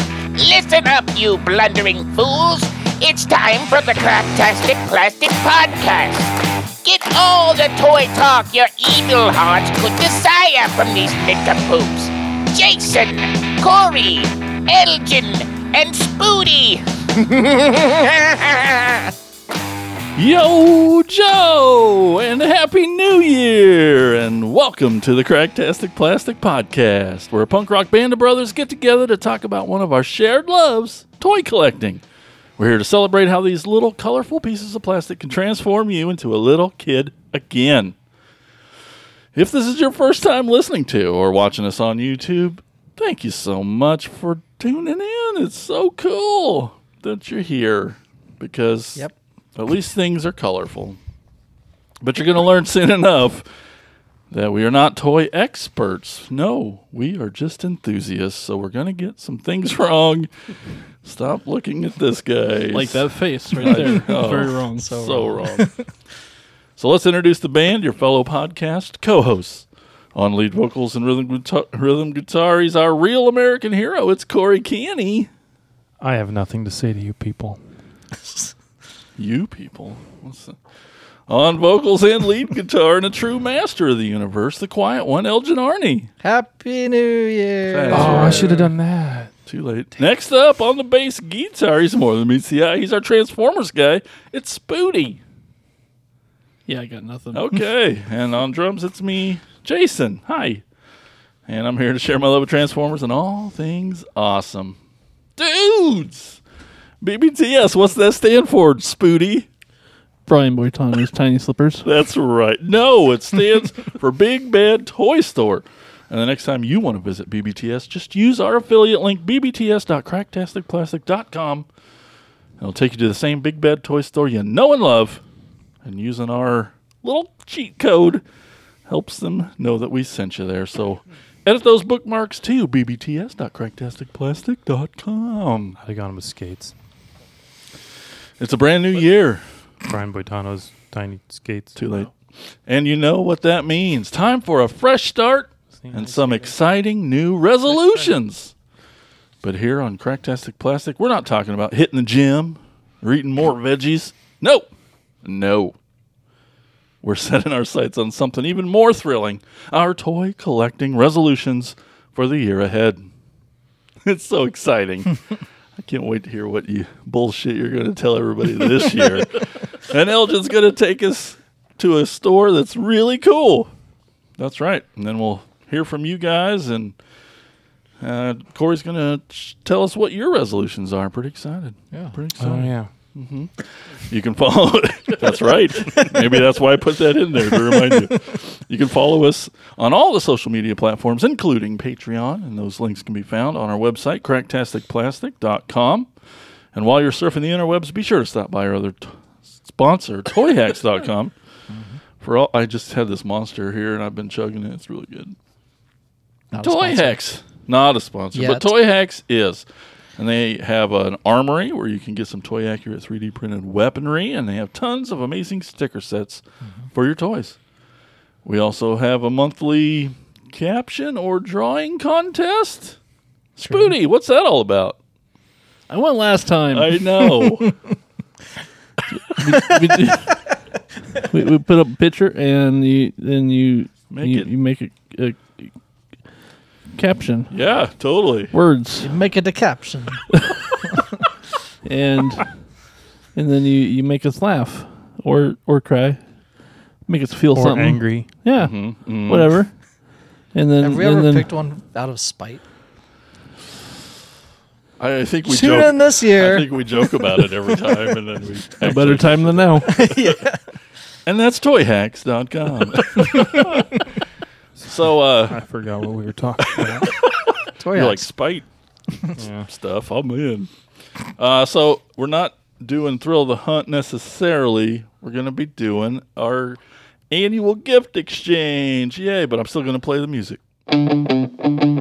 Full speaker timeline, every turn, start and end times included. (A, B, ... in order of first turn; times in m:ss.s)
0:00.4-0:19.1 A
0:20.2-0:32.0 B
0:32.6-0:38.0 B
0:39.3-0:51.0 B
0:52.0-0:53.5 B
0:54.3-1:00.3 B
1:01.0-1:05.7 B
1:02.7-1:05.2 C
1:04.7-1:05.9 D
1:06.8-1:15.3 B
1:16.0-1:17.6 E
1:19.2-1:20.6 B
1:21.3-1:26.1 B
1:26.2-1:28.6 D
1:27.6-1:28.7 B
1:27.9-1:29.3 E
1:29.4-1:35.2 B
1:36.7-1:37.5 C
1:37.3-1:40.6 B
1:41.5-1:44.8 B
1:45.4-1:46.4 B
1:47.0-1:49.5 B
1:50.3-1:51.9 C
1:51.8-2:01.7 B
2:02.6-2:05.2 B
2:05.8-2:08.2 B
2:08.9-2:15.8 B
2:15.8-2:16.7 E
2:18.4-2:19.4 B
2:19.8-2:21.8 E
2:21.8-2:28.5 B
2:25.8-2:26.5 E
2:27.7-2:28.1 E
2:29.4-2:34.7 B
2:35.2-2:35.8 B
2:37.0-2:43.1 B
2:44.0-2:45.2 B
2:45.8-2:53.7 B
2:54.4-2:57.0 B
2:58.0-3:16.1 B
3:01.9-3:02.2 D
3:02.4-3:02.9 E
3:05.9-3:06.2 D
3:07.6-3:08.2 D
3:16.7-3:21.3 B
3:21.7-3:22.0 D
3:22.2-3:25.4 B
3:26.5-3:27.2 D
3:26.6-3:29.6 B
3:28.3-3:28.8 D
3:30.2-3:37.6 B
3:36.6-3:36.9 D
3:38.4-3:43.0 B
3:43.6-3:45.0 B
3:43.6-3:43.9 D
3:45.9-3:47.0 C
3:46.7-3:47.7 B
3:49.2-3:50.4 C
3:49.4-3:50.2 D
3:51.3-3:55.7 C
3:54.1-3:54.5 B
3:56.9-3:57.5 C
3:57.5-3:58.5 B
3:58.5-3:59.1 C
3:59.0-4:00.2 D
4:01.8-4:02.6 C
4:03.4-4:06.2 C
4:07.1-4:09.8 C
4:07.5-4:08.3 E
4:08.6-4:09.6 B
4:10.5-4:11.5 C
4:10.8-4:12.6 D
4:15.0-4:20.3 B
4:15.4-4:17.6 D
4:18.8-4:20.0 C
4:19.9-4:20.8 D
4:21.2-4:23.8 B
4:23.2-4:24.0 D
4:24.8-4:27.2 E
4:24.8-4:25.6 B
4:26.7-4:28.7 B
4:27.8-4:28.3 D
4:29.4-4:29.7 E
4:29.6-4:30.7 B
4:31.4-4:40.6 B